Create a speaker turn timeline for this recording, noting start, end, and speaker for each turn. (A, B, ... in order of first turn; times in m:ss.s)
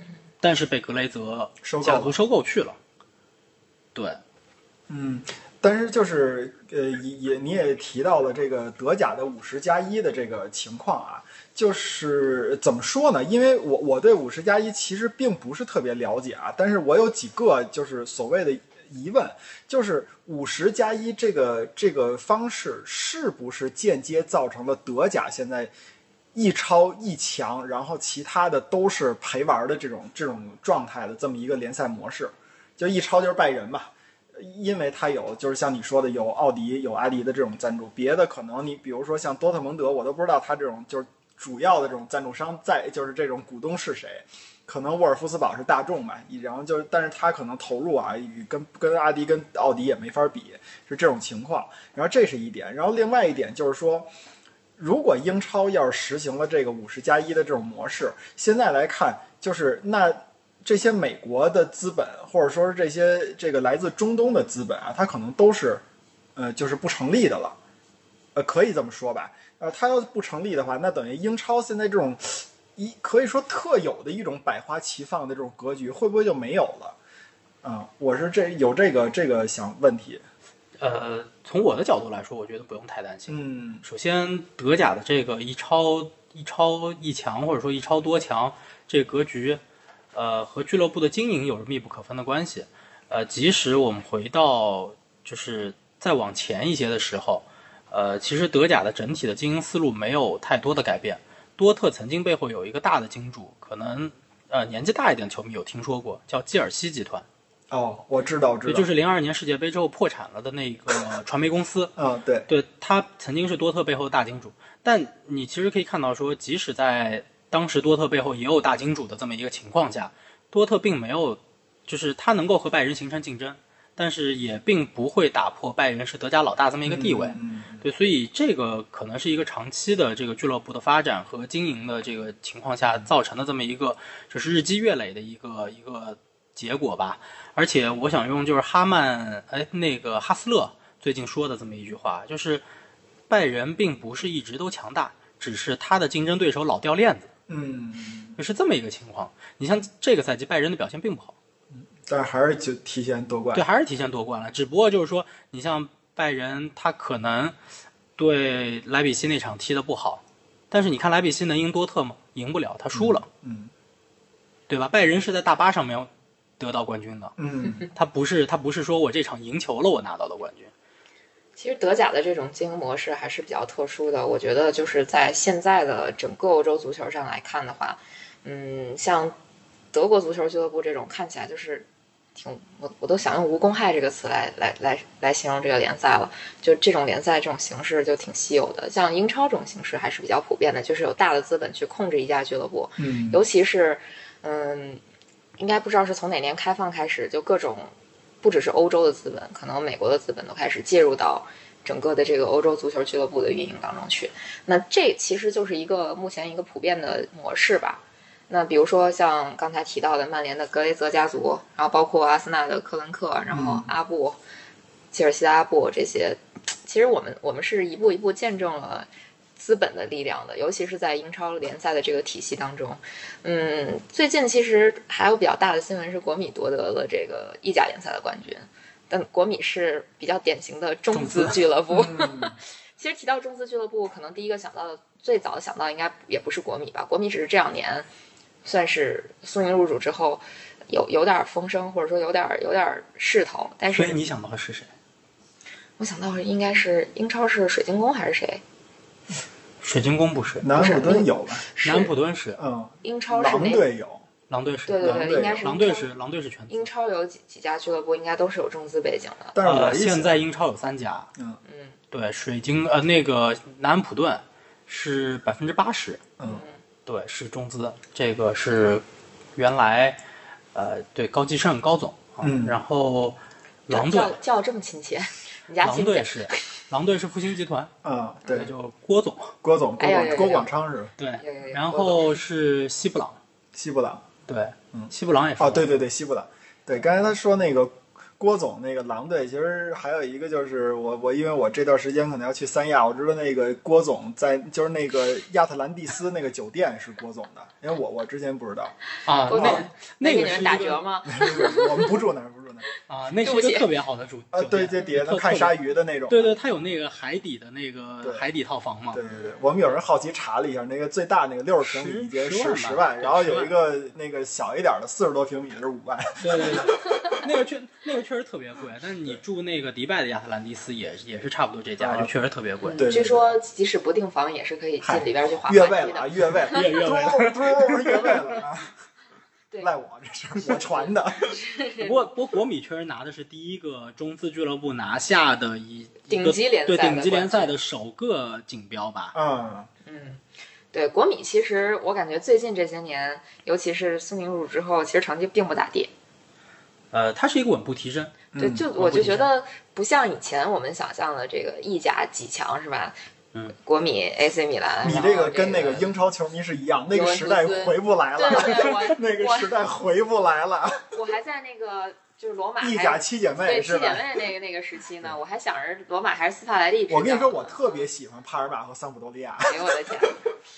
0:00.4-0:02.8 A
0:01.6-0:02.2 B
0:04.0-0:04.2 A
0:04.9-0:25.7 B
0:26.4-0:54.1 B
0:54.8-1:05.8 B
1:06.4-1:07.6 B
1:08.4-1:17.0 B
1:17.6-1:20.2 B
1:20.8-1:29.6 A
1:23.3-1:23.8 B
1:30.1-1:47.3 A
1:47.7-1:48.9 B
1:48.7-1:51.9 A
1:52.0-1:52.5 B
1:52.5-2:22.6 A
2:06.9-2:07.9 B
2:23.3-2:27.3 A
2:27.5-2:28.4 B
2:28.4-2:31.3 A
2:31.7-2:33.6 B
2:33.5-2:37.6 A
2:38.2-2:43.3 A
2:42.9-2:43.7 B
2:44.7-2:47.4 A
2:47.4-2:47.9 B
2:47.9-2:50.7 A
2:51.6-2:59.4 C
2:59.9-3:15.0 C
3:13.0-3:13.4 B
3:15.6-3:34.4 C
3:33.5-3:33.9 B
3:35.1-3:58.1 C
3:51.1-3:51.6 A
3:51.9-3:52.6 B
3:58.6-4:04.2 C
4:03.9-4:04.9 A
4:06.0-4:08.6 C
4:09.8-4:10.7 A
4:10.6-4:11.6 B
4:10.7-4:12.1 C
4:11.8-4:12.6 A
4:12.6-4:14.2 B
4:13.0-4:13.8 C
4:14.5-4:16.9 A
4:14.9-4:16.1 C
4:15.0-4:15.6 B
4:16.7-4:19.6 C
4:19.6-4:20.4 B
4:19.6-4:21.3 A
4:21.6-4:22.0 C
4:22.1-4:26.2 A
4:26.4-4:26.8 C
4:27.1-4:29.0 A
4:29.6-4:30.2 A
4:30.7-4:34.4 A
4:32.4-4:32.8 B
4:33.9-4:36.6 C
4:35.8-4:37.9 A
4:38.0-4:38.7 B
4:38.5-4:39.6 A
4:39.6-4:41.1 B
4:40.0-4:40.7 C
4:41.2-4:43.4 A
4:41.4-4:42.4 C
4:43.8-4:44.3 B
4:44.5-4:45.9 A
4:44.9-4:59.0 B
4:59.3-5:01.0 A
4:59.5-5:02.2 C
4:59.5-4:59.9 B
5:01.3-5:02.9 B
5:03.1-5:05.8 A
5:03.4-5:03.9 C
5:04.5-5:06.5 B
5:06.3-5:09.2 A
5:09.1-5:17.2 B
5:11.8-5:13.7 A
5:16.4-5:23.0 A
5:17.1-5:17.4 C
5:22.0-5:22.3 B
5:22.8-5:27.0 C
5:22.9-5:23.6 B
5:25.0-5:28.9 B
5:26.7-5:28.6 A
5:29.8-5:31.6 B
5:31.4-5:32.2 C
5:32.0-5:39.4 A
5:36.3-5:37.8 C
5:39.3-5:39.9 B
5:40.0-5:46.1 C
5:47.1-5:49.5 A
5:48.5-5:48.8 B
5:48.6-5:53.2 C
5:53.8-5:56.1 C
5:55.0-6:01.0 B
5:57.1-5:59.7 C
6:01.1-6:08.0 C
6:02.8-6:04.4 B
6:07.1-6:10.3 B
6:09.6-6:10.4 C